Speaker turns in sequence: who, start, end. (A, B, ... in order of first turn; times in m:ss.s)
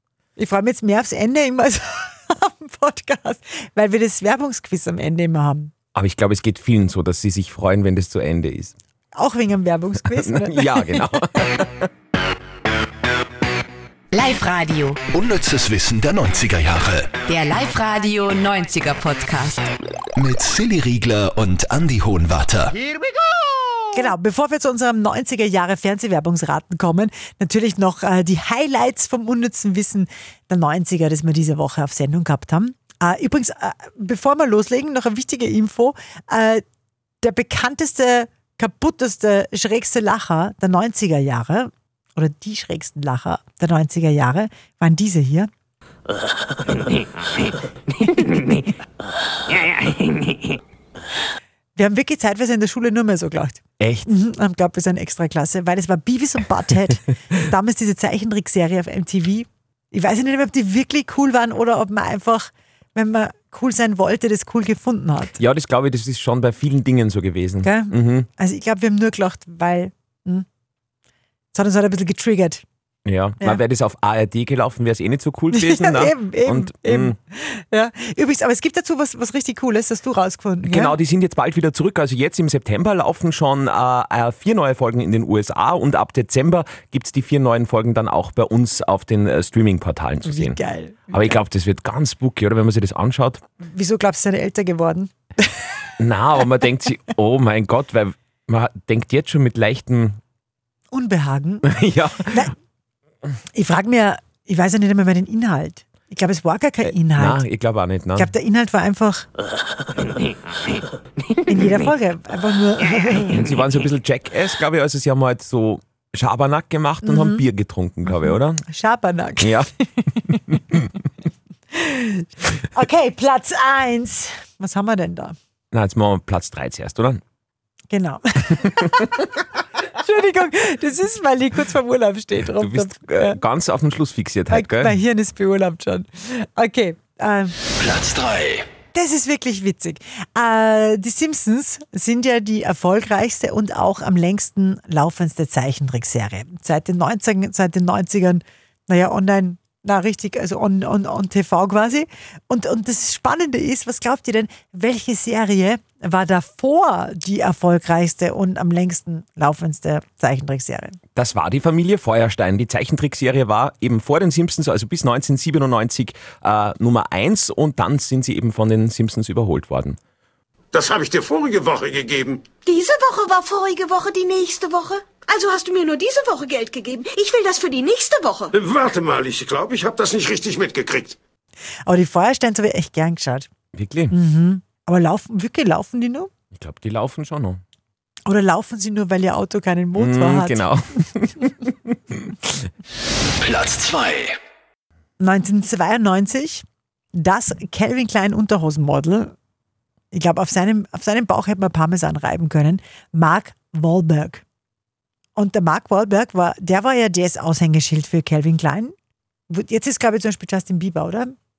0:00.4-0:05.7 A
0:05.9-0:08.7 B
0:09.1-0:11.2 A
0:10.0-0:11.9 B
0:14.1-0:15.0 C
0:15.1-0:17.1 D
0:17.3-0:19.7 C
0:20.2-0:22.7 D
0:23.9-0:36.6 A
0:37.2-0:45.5 A
0:51.8-1:05.4 A
0:53.8-0:54.1 B
1:05.4-1:08.3 B
1:07.6-1:10.4 A
1:11.5-1:12.6 A
1:13.0-1:17.2 B
1:15.5-1:21.0 A
1:20.6-1:30.6 B
1:30.2-1:31.4 A
1:31.1-1:33.4 B
1:33.6-1:35.6 A
1:36.0-1:40.2 B
1:40.9-1:41.7 A
1:41.6-1:42.5 B
1:42.3-1:42.5 A
1:43.5-1:47.4 A
1:46.8-1:48.3 B
1:48.2-1:49.3 A
1:51.4-1:53.5 A
1:53.3-1:58.6 B
1:57.0-1:57.4 A
1:58.2-1:59.6 A
1:59.4-1:59.7 B
2:00.3-2:00.9 B
2:01.7-2:05.3 A
2:05.7-2:07.2 B
2:07.9-2:09.2 A
2:09.8-2:13.4 A
2:12.6-2:14.9 B
2:14.5-2:17.6 A
2:17.8-2:18.7 D
2:18.9-2:41.0 A
2:41.2-2:50.0 B
2:50.7-2:52.5 E
2:52.6-2:58.5 F
2:58.5-3:01.2 E
3:01.8-3:03.5 A
3:03.7-3:04.1 B
3:04.1-3:06.3 A
3:06.5-3:07.6 B
3:08.2-3:10.7 A
3:10.0-3:12.4 B
3:13.4-3:14.4 D
3:15.2-3:19.3 A
3:20.1-3:24.4 A
3:25.4-3:28.9 A
3:29.5-3:31.4 A